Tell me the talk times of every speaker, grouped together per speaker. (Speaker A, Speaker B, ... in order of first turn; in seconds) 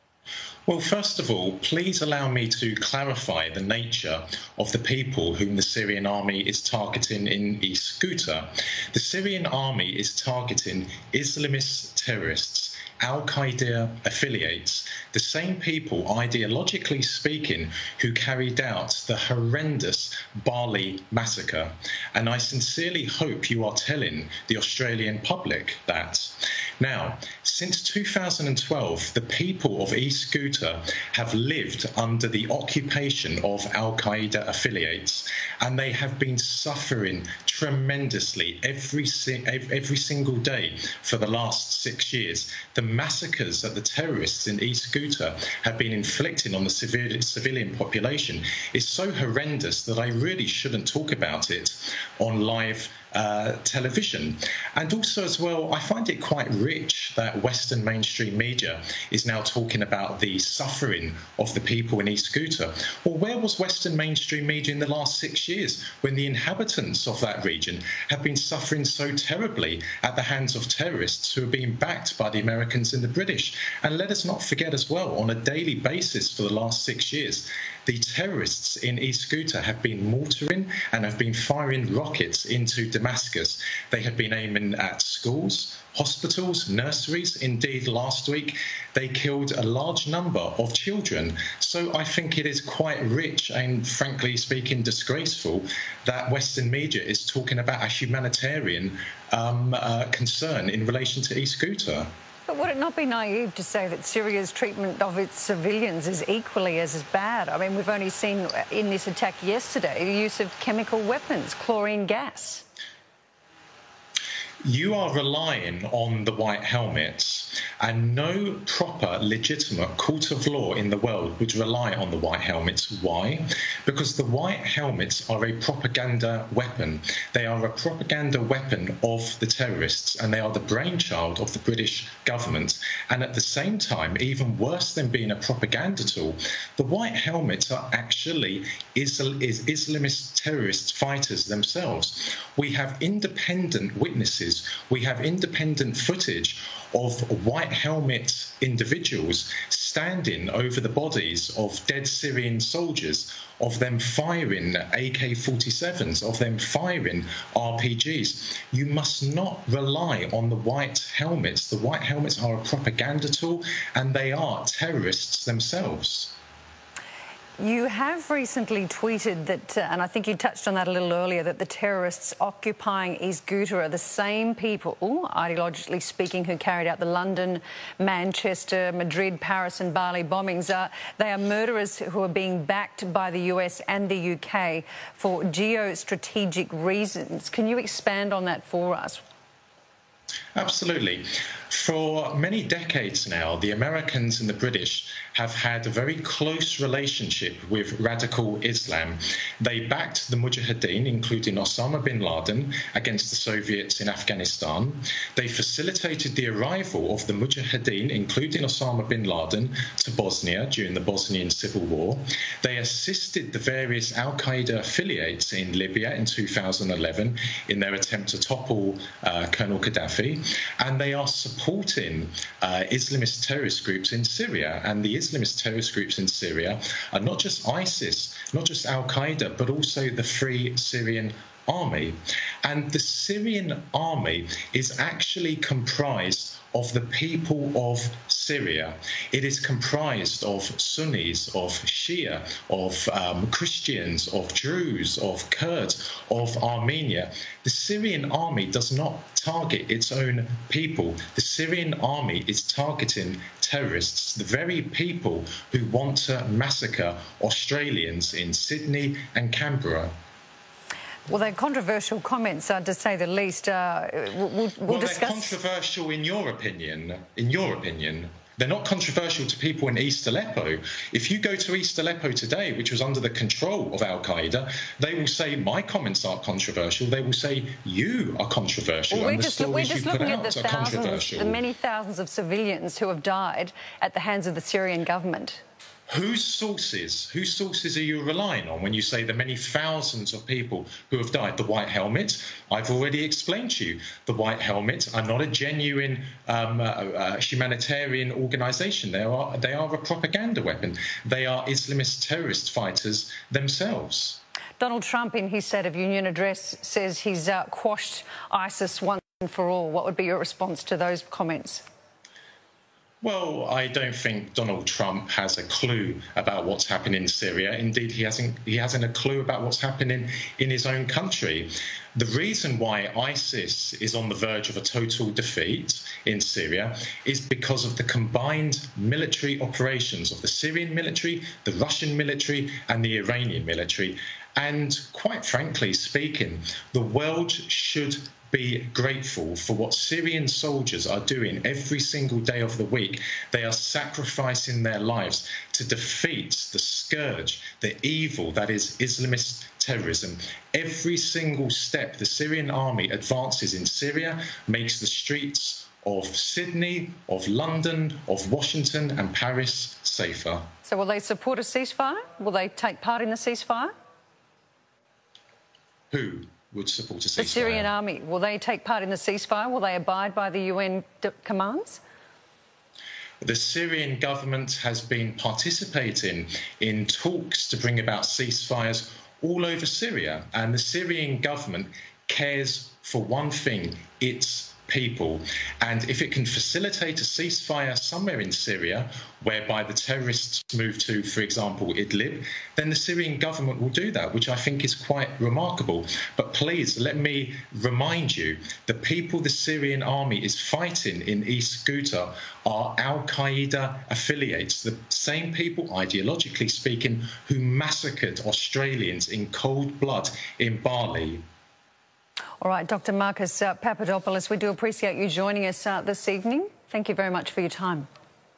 Speaker A: 0.7-102.1, 114.6-166.3, 190.5-260.1, 264.9-281.6, 286.1-304.4, 313.2-360.7, 366.1-367.9, 373.4-411.4
Speaker B: 102.5-112.6, 167.6-189.2, 261.3-265.6, 279.1-285.6, 304.8-311.8, 360.8-363.9, 367.4-372.0, 412.6-418.1